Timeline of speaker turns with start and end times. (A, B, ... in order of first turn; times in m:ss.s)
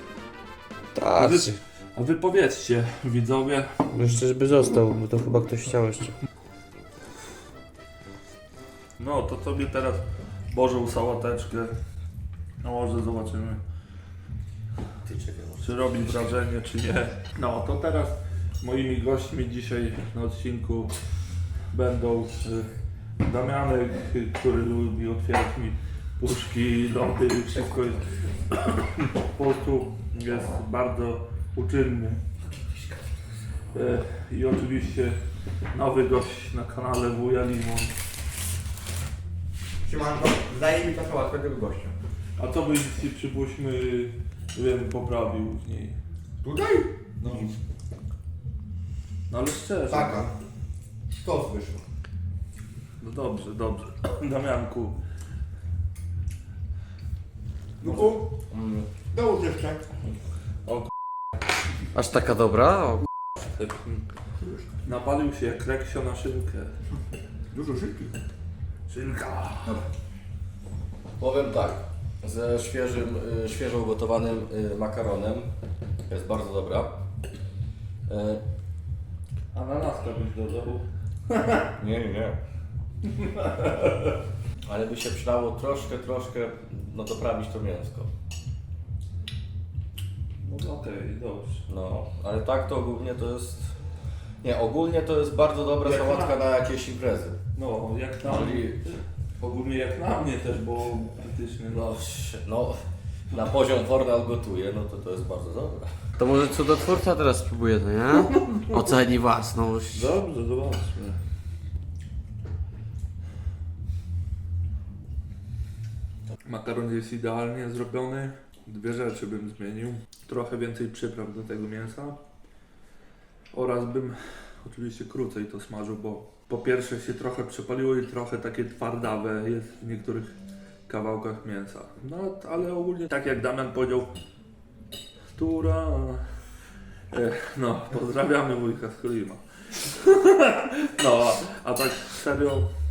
0:00.9-0:01.6 A
0:01.1-0:04.2 B
0:03.9-0:06.2 A
0:09.0-0:11.7 B
0:12.6-0:13.6 B
0:15.0-0:16.4 C
0:15.6-0:20.9 B
0:21.7-0:32.2 B
0:33.7-0:35.2 B
0:35.7-0:37.9 B
0:39.8-0:41.9 D
0:42.4-0:46.0 B
0:46.4-0:46.9 D
0:47.2-0:47.6 B
0:49.3-0:50.3 B
0:49.9-0:50.3 D
0:51.1-0:51.8 D
0:53.0-0:55.0 B
0:57.8-0:58.3 D
0:58.4-0:58.9 C
0:59.1-0:59.8 D
1:01.9-1:03.1 A
1:03.5-1:04.1 B
1:04.8-1:06.8 B
1:07.5-1:08.1 D
1:08.9-1:09.8 B
1:11.2-1:15.5 C
1:16.1-1:17.0 C
1:18.1-1:18.4 C
1:19.5-1:21.7 B
1:21.8-1:22.4 C
1:23.0-1:24.2 B
1:24.7-1:28.1 C
1:30.4-1:31.7 B
1:31.7-1:33.8 C
1:34.4-1:37.4 C
1:35.8-1:36.4 B
1:37.6-1:42.2 B
1:38.2-1:38.9 C
1:41.9-1:45.9 C
1:46.2-1:50.1 A
1:48.1-1:48.9 B
1:49.9-1:51.2 B
1:56.4-2:02.2 B
2:03.5-2:10.3 B
2:10.9-2:14.1 B
2:15.3-2:16.2 B
2:17.1-2:22.7 B